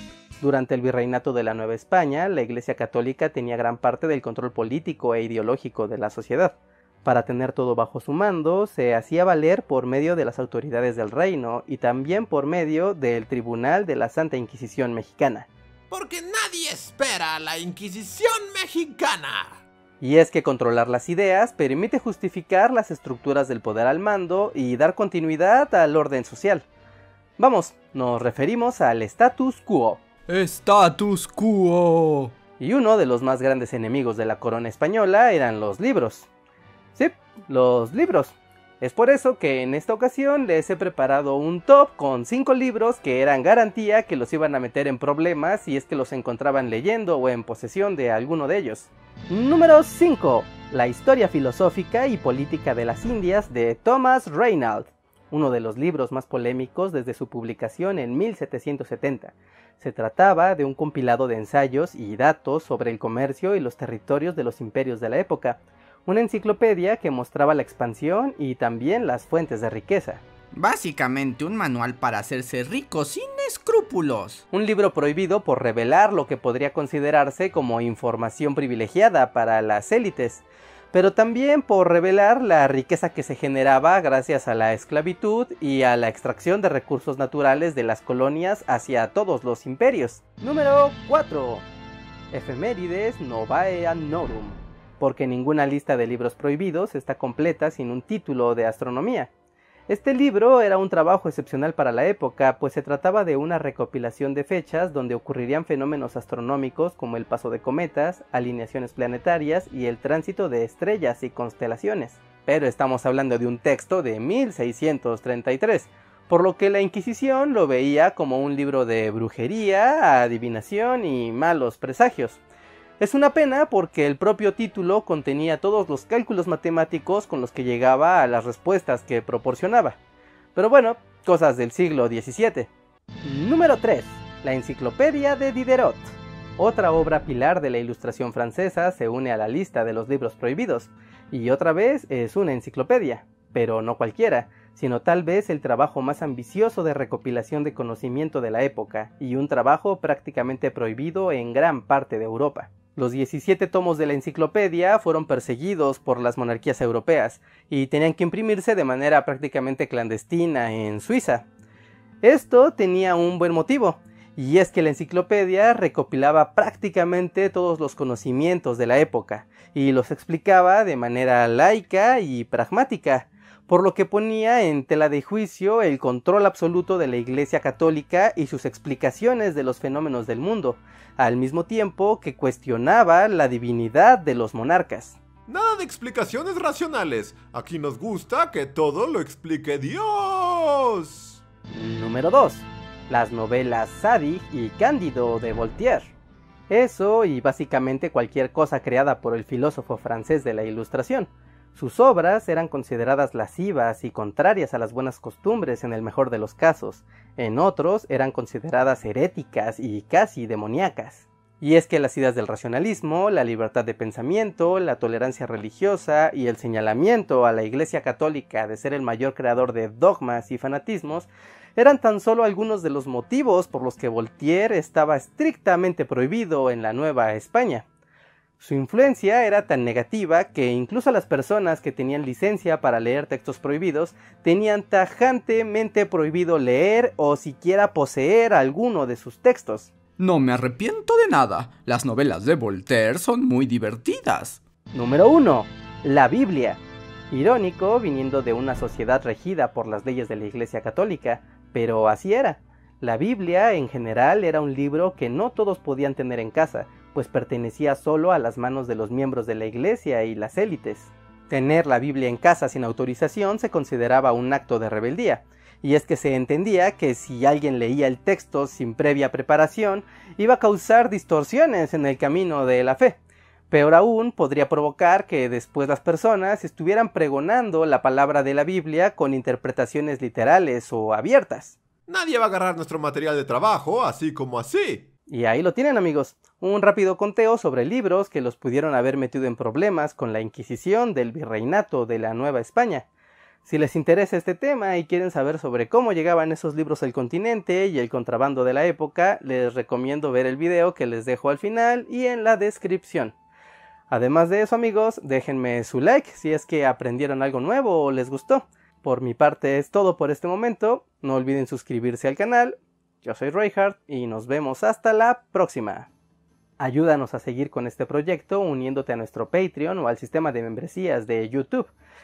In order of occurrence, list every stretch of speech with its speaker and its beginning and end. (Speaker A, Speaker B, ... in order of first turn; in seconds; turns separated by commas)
Speaker A: 0.4-15.5, Speaker B: 15.9-19.6, Speaker A: 20.0-26.6, Speaker A: 27.4-30.0, Speaker C: 30.3-32.3, Speaker A: 32.6-36.3, Speaker A: 37.0-70.2, Speaker C: 70.5-74.4, Speaker A: 74.5-91.7, Speaker A: 92.3-99.3, Speaker A: 99.9-122.4, Speaker A: 123.0-130.0, Speaker A: 130.6-132.7, Speaker A: 133.2-161.4, Speaker A: 162.2-185.2, Speaker B: 185.5-191.4, Speaker A: 191.7-196.1, Speaker A: 196.7-227.8, Speaker A: 228.6-239.9, Speaker C: 240.2-244.6, Speaker A: 244.9-273.2, Speaker A: 273.7-281.8, Speaker B: 282.1-285.1, Speaker A: 285.3-293.1, Speaker A: 293.6-303.4, Speaker A: 304.1-316.1, Speaker A: 316.8-321.9